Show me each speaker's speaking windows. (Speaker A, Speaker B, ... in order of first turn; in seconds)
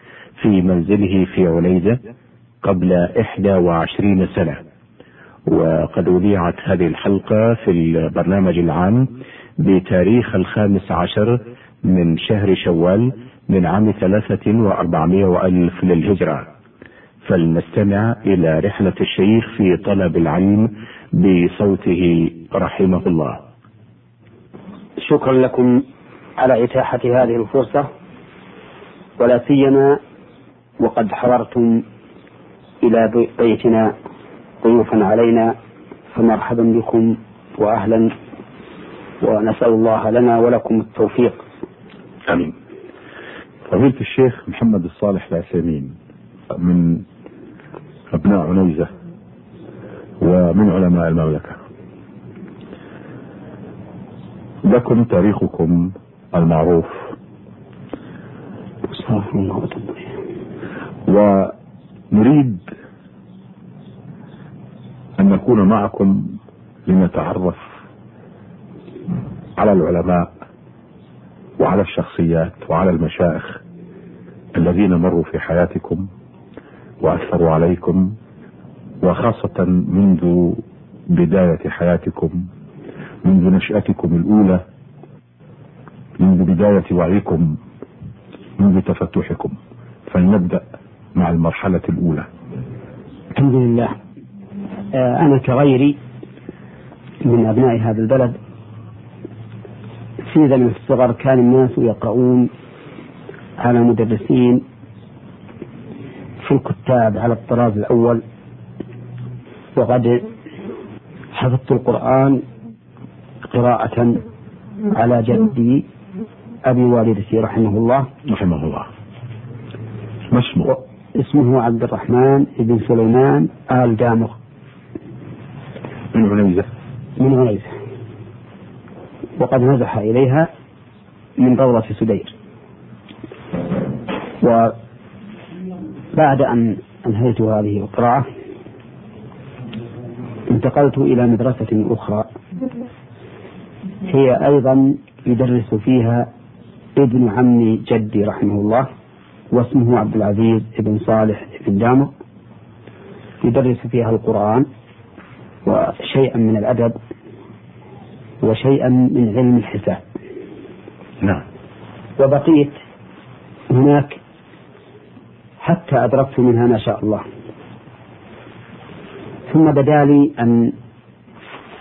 Speaker A: 0.4-2.0, 2.6-4.6, 5.5-16.5, 17.2-23.4
Speaker B: 25.0-25.8, 26.4-27.9, 29.2-30.0, 30.8-31.8, 32.8-33.9, 34.6-35.5, 36.1-38.1, 39.2-41.4, 58.9-60.1, 93.3-94.0, 94.9-96.0, 97.2-98.4, 100.3-102.5, 103.6-104.6, 106.4-108.2, 109.8-110.3, 111.3-112.4, 113.5-114.2, 114.9-115.8, 116.7-118.1, 120.7-124.4, 127.2-127.7, 129.4-130.5, 131.4-132.3, 134.4-134.8, 136.1-138.3, 140.5-142.3, 144.1-146.3, 147.0-148.9, 149.5-152.1, 153.4-154.7, 155.7-157.0, 158.4-160.0, 162.2-162.8, 163.7-164.2, 165.6-167.2, 169.5-170.8
Speaker C: 42.3-42.5, 43.7-46.0, 46.5-47.1, 48.1-48.9, 50.2-51.6, 54.6-57.1, 61.1-61.5, 62.1-62.7, 65.2-67.6, 69.6-70.3, 71.6-73.6, 74.5-76.1, 77.0-78.2, 79.0-82.5, 83.2-84.6, 86.2-87.6, 88.6-90.6, 91.2-92.3, 118.3-118.9, 120.3-120.7, 126.1-126.7